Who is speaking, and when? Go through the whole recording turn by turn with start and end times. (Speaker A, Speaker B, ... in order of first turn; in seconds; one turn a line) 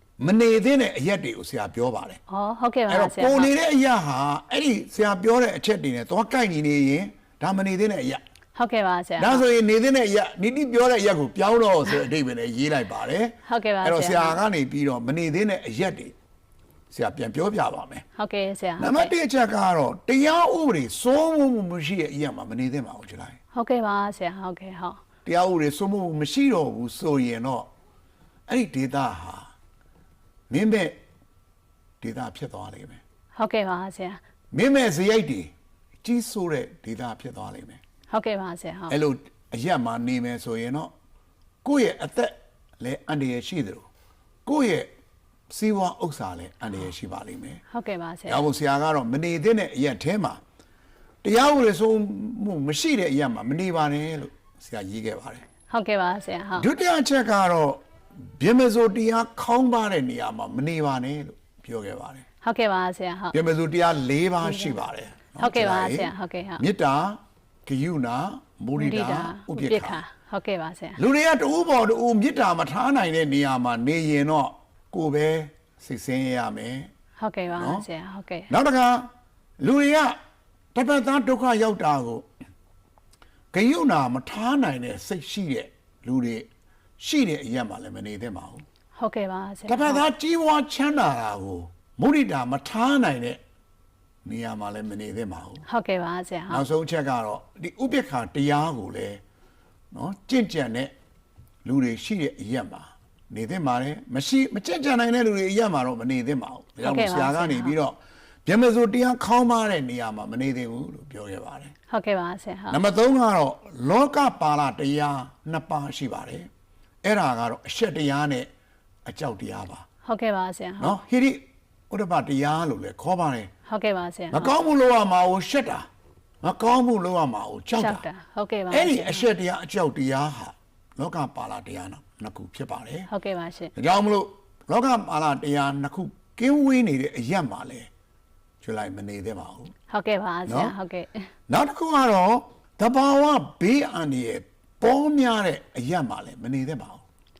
Speaker A: 0.2-2.2
Speaker B: 2.3-3.5
Speaker A: 2.9-8.2
Speaker B: 8.6-9.4
Speaker A: 9.2-16.1
Speaker B: 13.5-14.4
Speaker A: 16.9-18.0
Speaker B: 18.2-19.1
Speaker A: 18.8-23.4
Speaker B: 23.5-25.0
Speaker A: 25.2-27.7
Speaker A: 28.5-29.5
Speaker A: 30.5-31.0
Speaker A: 32.0-33.0
Speaker B: 33.4-34.2
Speaker A: 34.5-35.5
Speaker A: 36.0-37.8
Speaker B: 38.1-39.0
Speaker A: 38.9-40.9
Speaker A: 41.6-43.9
Speaker A: 44.5-44.9
Speaker A: 45.5-47.6
Speaker B: 47.7-48.5
Speaker A: 48.3-50.4
Speaker A: 51.2-55.4
Speaker B: 55.7-56.7
Speaker A: 56.6-62.2
Speaker B: 62.4-63.4
Speaker A: 63.3-70.0
Speaker B: 65.4-66.6
Speaker B: 68.8-71.0
Speaker A: 71.0-76.9
Speaker B: 77.2-78.5
Speaker A: 77.6-77.8
Speaker A: 78.5-79.1
Speaker A: 79.6-80.2
Speaker A: 80.7-82.2
Speaker A: 83.5-86.5
Speaker A: 87.0-88.6
Speaker B: 89.0-90.0
Speaker A: 89.7-93.4
Speaker A: 94.2-95.7
Speaker B: 95.7-96.6
Speaker A: 96.5-99.2
Speaker A: 99.9-100.9
Speaker A: 101.7-111.7
Speaker B: 106.8-107.8
Speaker B: 111.9-112.8
Speaker A: 112.7-116.5
Speaker A: 117.0-118.5
Speaker A: 119.1-119.8
Speaker B: 120.0-121.0
Speaker A: 120.8-123.5
Speaker B: 123.7-124.5
Speaker A: 124.3-125.9
Speaker A: 126.4-128.1
Speaker B: 127.8-129.3
Speaker A: 128.7-133.1
Speaker B: 133.1-133.7
Speaker A: 133.8-137.9
Speaker A: 138.6-139.7
Speaker B: 139.9-141.2
Speaker A: 140.5-140.7
Speaker A: 141.5-147.0